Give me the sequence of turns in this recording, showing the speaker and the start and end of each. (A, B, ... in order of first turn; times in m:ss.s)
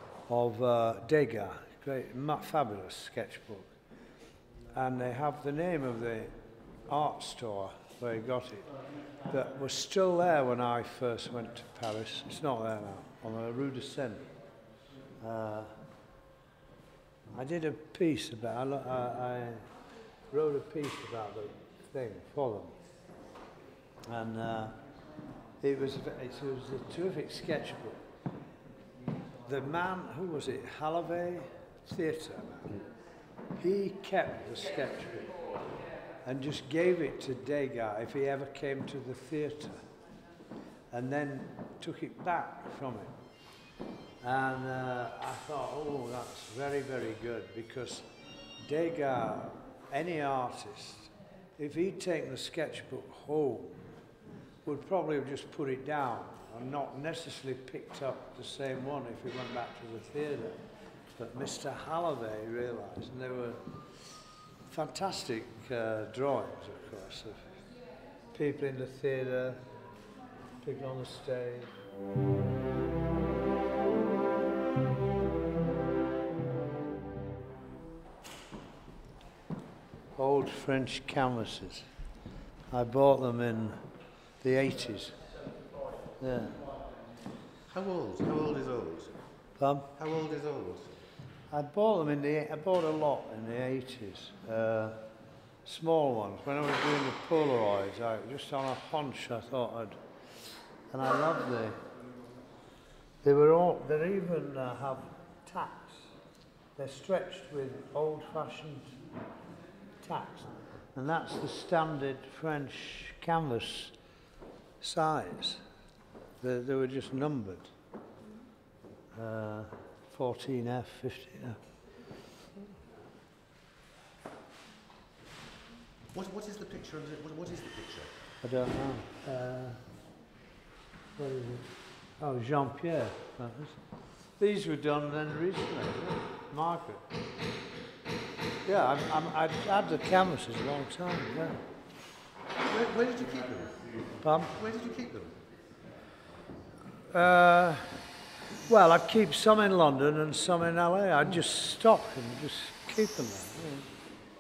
0:00.3-0:03.7 A
0:04.7-0:06.3 A
0:06.9-0:14.3 A
0:15.2-0:15.8 A
0:17.3-0:19.8 A
0:20.3-0:22.8 A
0:24.0-0:24.8 A
0:25.6-0:28.0 A
0:29.4-0:32.8 A
0:33.6-0:35.5 A
0:36.2-0:39.8 A
0:40.9-0:43.2 A
0:44.2-0:48.1 A
0:48.6-0:53.9 A
0:54.6-1:07.6 A
1:08.3-1:09.6 A
1:10.6-1:11.7 A
1:20.2-1:21.9 A
1:22.7-1:23.9 A
1:24.4-1:25.2 A
1:26.2-1:26.7 A
1:27.7-1:29.2 B
1:29.6-1:29.9 A
1:30.0-1:30.9 B
1:31.5-1:35.0 A
1:35.6-1:41.8 A
1:43.2-1:46.1 A
1:46.8-1:49.0 A
1:50.0-1:54.0 A
1:54.8-1:55.6 A
1:56.4-1:57.7 A
1:59.1-2:01.6 A
2:06.1-2:08.1 B
2:08.4-2:09.9 A
2:11.2-2:17.1 A
2:18.6-2:21.6 A
2:22.6-2:25.4 B
2:24.2-2:24.6 A
2:27.1-2:28.0 A
2:28.6-2:33.9 A